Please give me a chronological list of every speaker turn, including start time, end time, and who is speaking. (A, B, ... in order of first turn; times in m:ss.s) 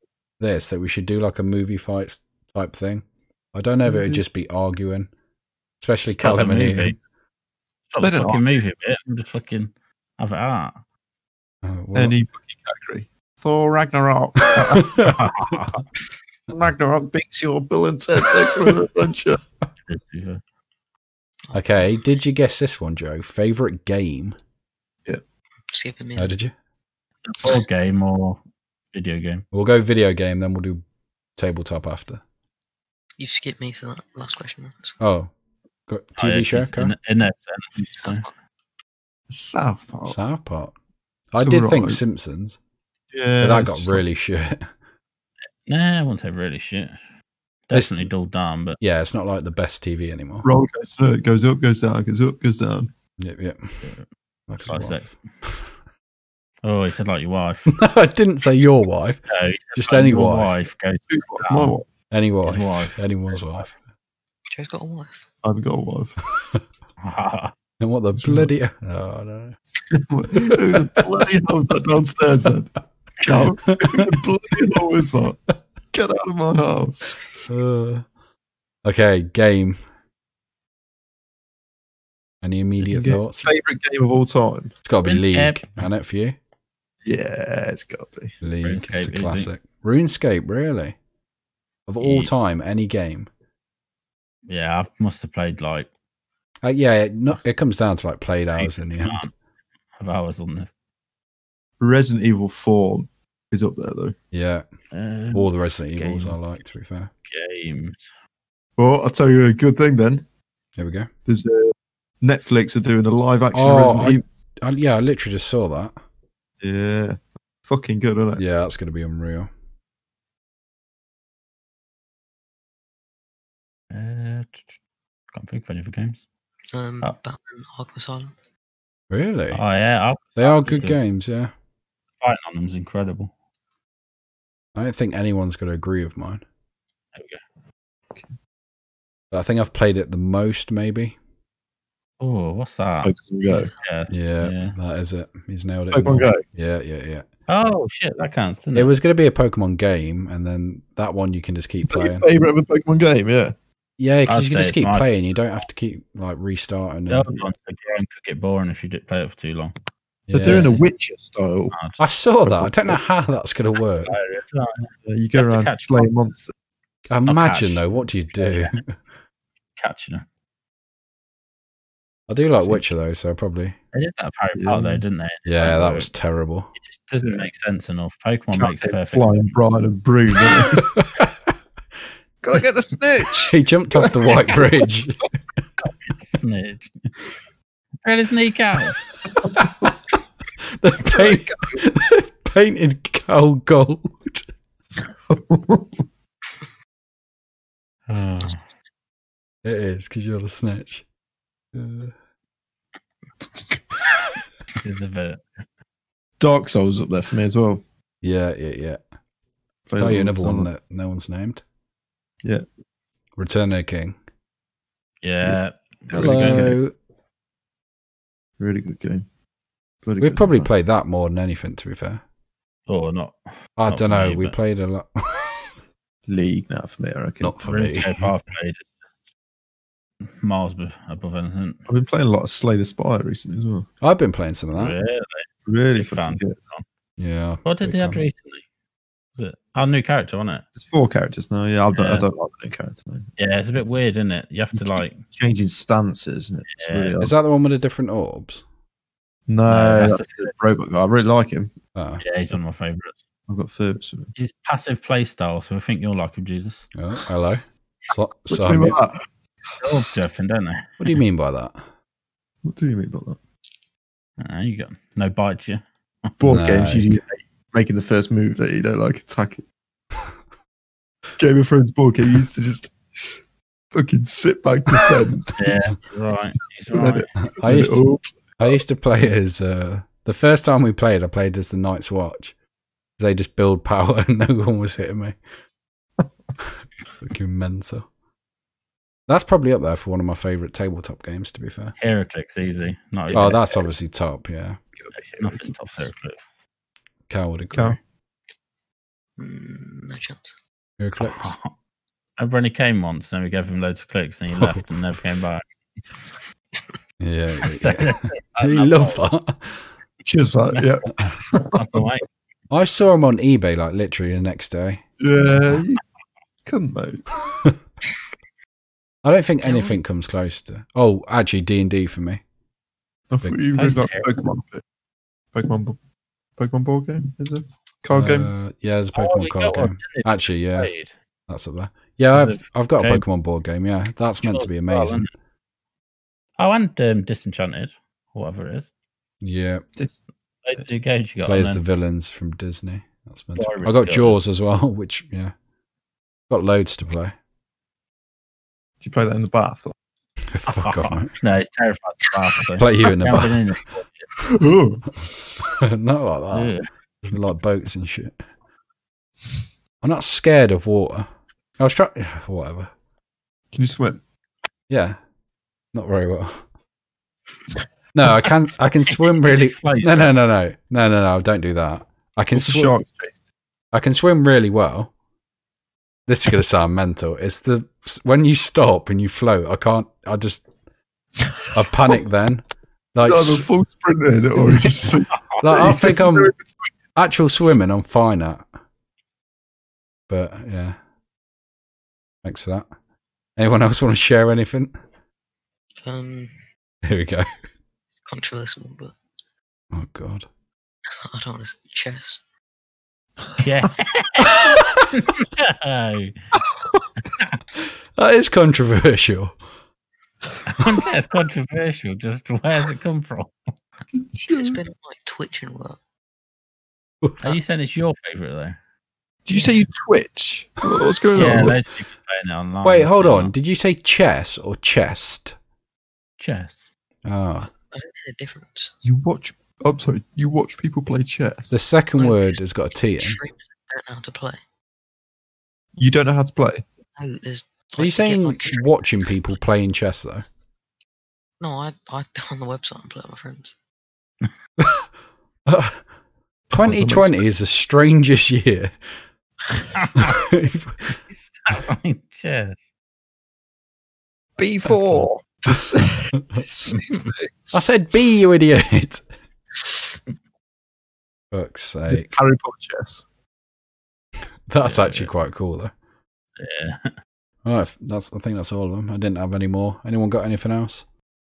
0:00.4-0:05.1 A
0:03.8-0:04.2 B
0:05.8-0:07.0 A
0:06.2-0:07.0 C
0:07.9-0:10.8 C
0:08.0-0:08.5 B
0:11.6-0:12.1 A
0:11.9-0:15.0 B
0:14.7-0:15.2 A
0:15.0-0:15.8 C
0:16.5-0:19.4 B
0:19.9-0:20.4 C
0:21.5-0:22.1 D
0:21.5-0:24.4 A
0:25.7-0:26.3 D
0:26.2-0:26.5 A
0:27.2-0:28.4 C
0:28.9-0:29.4 C
0:29.5-0:30.8 A
0:31.4-0:32.2 A
0:33.2-0:35.0 D
0:35.0-0:35.3 A
0:35.9-0:36.9 A
0:36.2-0:38.3 C
0:38.0-0:38.3 D
0:39.3-0:40.2 B
0:40.0-0:40.7 A
0:41.3-0:42.6 A
0:41.4-0:42.0 B
0:43.1-0:44.0 B
0:43.4-0:44.7 A
0:45.6-0:47.0 C
0:47.7-0:48.8 C
0:47.7-0:48.1 A
0:48.8-0:50.5 A
0:50.4-0:52.9 B
0:53.2-0:53.9 A
0:54.5-0:55.5 A
0:54.6-0:55.3 C
0:56.6-0:57.7 C
0:57.7-0:59.2 A
0:59.3-1:01.8 C
0:59.8-1:00.6 A
1:01.1-1:01.9 B
1:02.1-1:03.8 A
1:02.4-1:03.6 C
1:04.5-1:05.2 D
1:05.4-1:06.2 B
1:06.3-1:06.6 A
1:07.0-1:07.5 C
1:07.8-1:09.6 A
1:08.2-1:08.5 B
1:09.9-1:15.4 B
1:10.3-1:11.1 A
1:13.6-1:14.1 A
1:15.9-1:17.2 B
1:17.5-1:18.0 A
1:18.8-1:19.8 A
1:22.4-1:23.5 A
1:22.8-1:23.2 C
1:22.9-1:24.7 B
1:24.8-1:26.4 A
1:25.0-1:25.9 C
1:27.0-1:28.3 B
1:28.4-1:30.9 A
1:28.6-1:29.5 C
1:31.9-1:33.3 A
1:32.0-1:32.3 C
1:34.5-1:35.9 C
1:36.6-1:39.2 A
1:38.5-1:39.3 C
1:40.0-1:40.7 C
1:41.8-1:44.1 B
1:44.3-1:44.6 A
1:44.9-1:46.4 C
1:45.3-1:47.1 A
1:47.2-1:48.0 C
1:48.8-1:50.2 B
1:50.8-1:51.1 A
1:51.3-1:54.2 B
1:53.5-1:55.9 A
1:56.6-1:58.4 B
1:58.4-1:59.5 A
2:03.9-2:04.7 C
2:05.3-2:06.2 C
2:06.7-2:08.3 D
2:09.1-2:09.6 A
2:09.5-2:11.0 C
2:10.4-2:11.5 A
2:12.2-2:13.3 C
2:14.7-2:16.4 A
2:17.1-2:17.4 C
2:19.3-2:21.2 A
2:22.2-2:24.7 C
2:23.0-2:23.7 B
2:24.1-2:27.2 A
2:25.9-2:26.4 B
2:27.5-2:29.0 C
2:28.7-2:32.2 A
2:31.8-2:33.5 B
2:34.0-2:37.4 A
2:34.3-2:35.1 C
2:37.1-2:39.7 C
2:40.3-2:40.7 A
2:40.3-2:41.7 B
2:40.4-2:40.8 C
2:41.7-2:42.0 C
2:42.0-2:44.2 A
2:42.4-2:43.0 B
2:44.0-2:46.1 C
2:45.0-2:46.5 B
2:47.1-2:49.0 A
2:47.3-2:48.8 C
2:49.8-2:50.2 C
2:52.3-2:53.8 A
2:53.9-2:56.1 C
2:54.6-2:55.0 B
2:55.4-2:56.7 A
2:56.7-2:59.6 C
2:57.2-2:57.5 B
2:58.5-3:00.8 B
3:00.8-3:01.5 A
3:02.4-3:04.8 B
3:03.3-3:05.3 A
3:06.0-3:07.1 C
3:08.0-3:09.1 C
3:09.4-3:09.9 A
3:10.8-3:14.4 A
3:11.0-3:11.8 B
3:15.3-3:16.0 B
3:18.1-3:18.6 C
3:19.6-3:21.0 A
3:21.7-3:22.1 A
3:24.8-3:25.4 C
3:26.4-3:27.8 B
3:28.2-3:29.0 A
3:29.9-3:30.7 B
3:30.0-3:31.6 A
3:33.4-3:34.2 A
3:35.2-3:36.7 C
3:35.4-3:36.8 B
3:36.1-3:36.9 A
3:38.6-3:39.2 B
3:40.0-3:40.7 B
3:40.2-3:42.2 A
3:42.9-3:43.4 C
3:43.8-3:45.7 A
3:43.9-3:44.5 C
3:46.3-3:47.5 B
3:47.4-3:48.4 A
3:47.6-3:49.1 C
3:50.2-3:51.8 C
3:51.9-3:53.9 B
3:54.0-3:54.9 A
3:54.7-3:56.8 C
3:55.7-3:56.6 B
3:57.2-3:58.2 A
3:57.6-3:58.6 C
3:59.4-4:00.6 C
4:00.8-4:03.3 B
4:01.9-4:02.2 C
4:03.4-4:05.2 C
4:04.7-4:07.3 B
4:06.7-4:07.2 C
4:07.2-4:08.6 A
4:09.5-4:11.7 B
4:09.7-4:10.5 C
4:11.9-4:12.2 A
4:12.2-4:13.2 C
4:13.5-4:14.3 B
4:14.4-4:16.9 C
4:16.9-4:19.0 A
4:18.5-4:19.2 B
4:19.8-4:21.2 C
4:21.0-4:21.8 A
4:22.6-4:23.4 B
4:24.4-4:27.0 C
4:26.4-4:29.6 B
4:26.5-4:27.1 A
4:31.4-4:32.9 B
4:33.9-4:35.6 B
4:35.6-4:37.3 C
4:36.9-4:38.8 B
4:37.4-4:38.0 A
4:38.6-4:42.5 A
4:43.2-4:45.4 A
4:47.2-4:48.0 A
4:49.3-4:51.9 A
4:52.0-4:53.6 C
4:53.3-4:53.9 B
4:53.3-4:54.8 A
4:55.0-4:56.0 B
4:55.4-4:56.4 C
4:57.3-4:58.0 A
4:57.7-4:58.0 B
4:59.4-5:00.6 D
5:01.0-5:01.5 A
5:01.2-5:01.7 C
5:02.4-5:05.6 C
5:07.2-5:09.8 A
5:07.6-5:09.3 C
5:10.2-5:12.0 B
5:11.7-5:12.2 C
5:12.7-5:15.0 A
5:15.2-5:16.0 B
5:16.6-5:17.2 B
5:19.2-5:22.4 A
5:19.6-5:20.0 D
5:23.3-5:24.8 B
5:23.7-5:24.3 C
5:25.5-5:26.0 B
5:26.6-5:28.5 B
5:28.1-5:30.9 A
5:29.1-5:31.1 C
5:31.5-5:35.3 A
5:32.3-5:33.2 C
5:34.4-5:35.3 C
5:36.6-5:38.9 C
5:39.4-5:39.8 A
5:40.6-5:41.8 C
5:41.4-5:45.5 A
5:43.6-5:44.4 C
5:46.5-5:47.3 A
5:49.0-5:49.9 B
5:50.5-5:51.3 A
5:50.7-5:54.3 C
5:52.8-5:53.6 A
5:54.4-5:55.5 B
5:55.6-5:58.4 A
5:56.5-5:56.8 C
6:00.0-6:01.3 A
6:01.8-6:02.9 A
6:03.7-6:04.2 B
6:04.9-6:05.2 A
6:05.9-6:06.6 A
6:08.1-6:12.9 A
6:09.4-6:10.3 C
6:12.5-6:13.4 B
6:13.9-6:15.1 A
6:16.3-6:20.6 A
6:21.7-6:23.7 A
6:23.2-6:26.9 B
6:25.6-6:26.5 A
6:27.1-6:28.6 A
6:30.3-6:31.0 A
6:32.4-6:32.8 A
6:33.6-6:34.9 A
6:36.0-6:36.5 D
6:37.0-6:37.5 A
6:38.2-6:39.2 D
6:39.9-6:40.4 A
6:41.3-6:42.4 D
6:43.6-6:46.4 C
6:46.6-6:47.0 B
6:47.2-6:47.6 C
6:48.2-6:49.5 A
6:50.6-6:53.5 C
6:54.1-6:54.8 B
6:54.5-6:56.0 D
6:57.4-6:58.8 C
6:59.4-7:01.8 B
7:01.3-7:03.5 C
7:01.4-7:01.7 A
7:02.8-7:05.5 A
7:06.4-7:06.9 C
7:07.2-7:07.7 A
7:07.6-7:08.9 D
7:09.0-7:11.7 B
7:11.7-7:13.4 A
7:12.2-7:14.6 D
7:16.0-7:16.8 B
7:17.2-7:19.4 D
7:18.0-7:20.4 A
7:21.6-7:23.7 D
7:25.6-7:26.0 A
7:26.7-7:27.4 B
7:26.7-7:28.9 A
7:29.9-7:30.4 C
7:30.2-7:31.1 A
7:31.1-7:32.8 C
7:34.6-7:37.8 B
7:34.9-7:35.2 C
7:36.9-7:37.3 C
7:37.7-7:39.2 A
7:41.5-7:42.3 A
7:42.1-7:43.2 B
7:44.7-7:45.9 A
7:44.8-7:45.3 C
7:46.6-7:47.1 C
7:47.6-7:51.0 A